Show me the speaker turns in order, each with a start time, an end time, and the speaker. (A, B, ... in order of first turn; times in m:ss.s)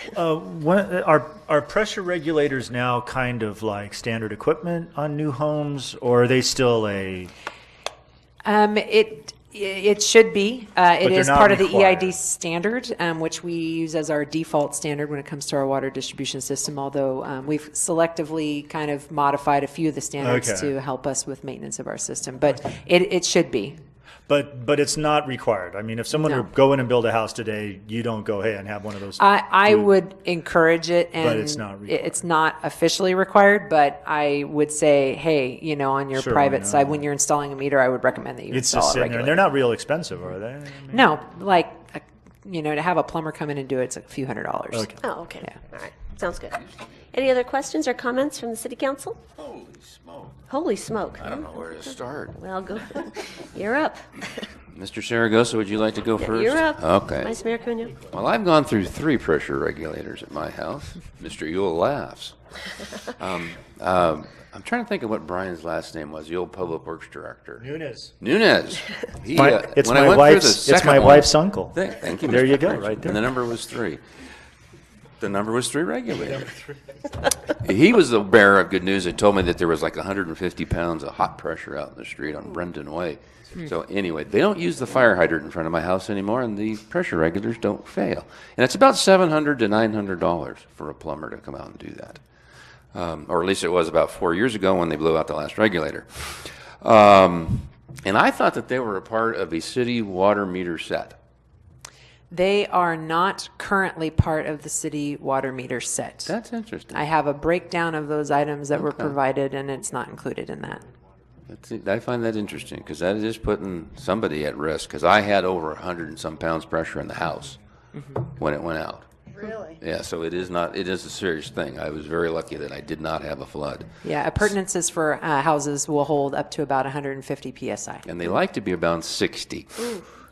0:00.1-0:07.3 A
0:08.4-0:23.8 B
0:11.0-0:12.1 A
0:20.2-0:20.7 A
0:24.3-0:29.9 A
0:26.2-0:26.5 B
0:29.2-0:39.4 B
0:31.2-0:32.2 A
0:36.1-0:37.0 A
0:38.5-0:41.0 A
0:40.9-0:45.5 B
0:44.7-0:45.0 A
0:45.0-0:46.6 C
0:47.1-0:49.2 C
0:49.4-0:50.4 D
0:50.5-0:51.4 C
0:51.2-0:52.4 D
0:52.3-0:54.4 C
0:54.7-0:57.4 D
0:56.2-0:58.0 C
0:58.0-1:02.4 D
1:03.0-1:07.6 D
1:07.6-1:08.1 A
1:08.2-1:14.0 D
1:09.3-1:13.2 A
1:15.2-1:16.5 D
1:17.6-1:32.2 D
1:32.9-1:41.2 D
1:42.3-1:46.3 B
1:46.2-1:47.0 D
1:46.9-1:50.8 B
1:48.7-1:49.1 D
1:51.5-1:57.6 D
1:57.9-1:58.2 B
1:58.4-1:59.1 D
1:59.7-2:03.9 D
2:04.0-2:08.0 B
2:08.0-2:10.1 D